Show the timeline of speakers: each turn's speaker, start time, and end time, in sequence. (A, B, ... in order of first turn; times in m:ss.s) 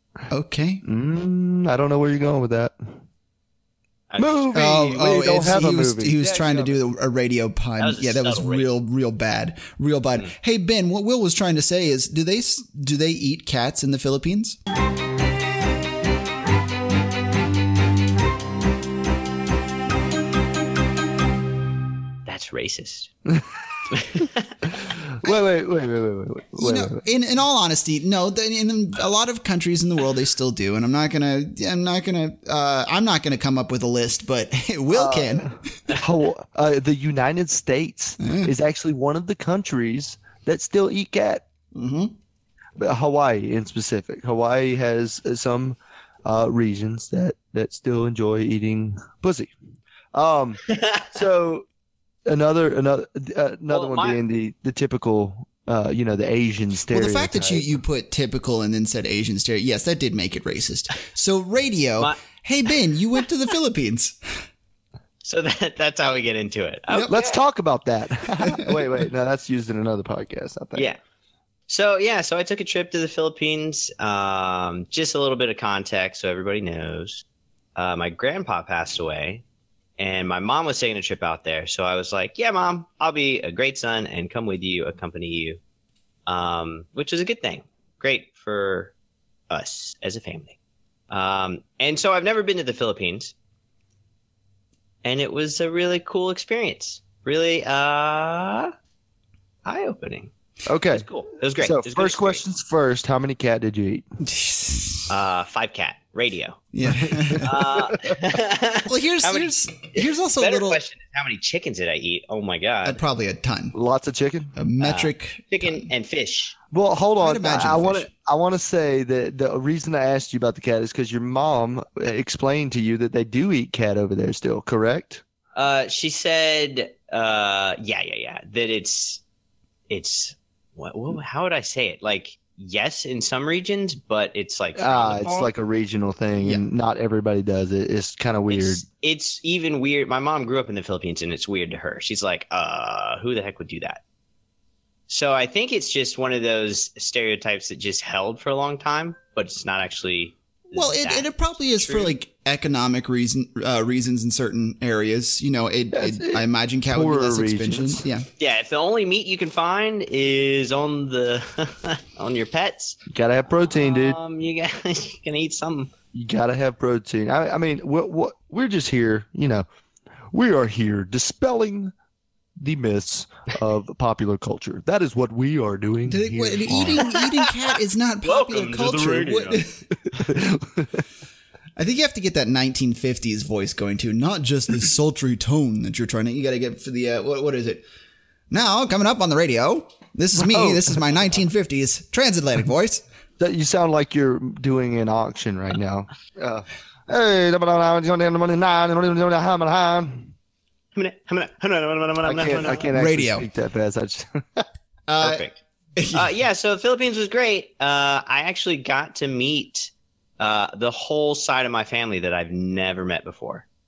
0:00.3-0:00.8 A
0:00.8-0:02.9 B
0:04.1-0:04.5 C
0:04.2-0:06.8 B
0:04.5-0:14.6 A
0:07.8-0:08.7 C
0:22.2-0:23.1 C
0:23.9-0:24.6 C
0:24.7-0:27.0 B
0:26.6-0:35.6 A
0:34.9-0:41.4 B
0:38.2-0:38.5 A
0:41.7-0:42.1 A
0:42.8-0:49.5 B
0:50.1-0:51.6 B
0:52.2-0:57.7 B
0:53.7-0:54.2 C
0:56.9-1:04.2 A
1:05.2-1:07.4 C
1:07.1-1:10.9 B
1:08.4-1:08.8 A
1:11.7-1:17.2 C
1:17.8-1:19.4 C
1:20.0-1:25.6 C
1:26.3-1:28.9 C
1:29.5-1:30.6 C
1:31.1-1:33.3 C
1:35.0-1:38.7 C
1:39.6-1:40.3 C
1:40.6-1:41.0 B
1:40.9-1:42.4 C
1:41.6-1:44.0 B
1:44.2-1:45.1 A
1:45.1-1:46.6 C
1:46.7-1:47.6 A
1:47.0-1:47.9 B
1:47.4-1:53.0 C
1:48.8-1:50.8 A
1:52.8-1:53.7 A
1:53.7-1:54.5 B
1:54.6-1:55.9 A
1:54.8-1:56.5 C
1:56.7-2:05.2 B
1:57.2-1:58.1 A
2:05.6-2:09.2 C
2:09.9-2:15.5 C
2:14.8-2:18.8 B
2:18.5-2:24.0 C
2:25.1-2:32.1 C
2:30.7-2:38.3 A
2:35.9-2:38.0 B
2:38.4-2:43.0 C
2:43.1-2:44.2 B
2:43.7-2:45.9 C
2:46.1-2:49.6 B
2:50.3-2:51.9 B
2:52.6-2:57.2 B
2:56.1-2:59.8 A
2:57.0-2:59.7 C
3:00.2-3:01.0 B
3:01.8-3:07.8 A
3:08.5-3:13.0 A
3:10.4-3:11.0 B
3:13.4-3:20.3 B
3:20.9-3:22.9 C
3:22.2-3:24.6 B
3:22.9-3:23.4 A
3:25.1-3:26.3 A
3:25.2-3:25.6 C
3:26.1-3:33.6 C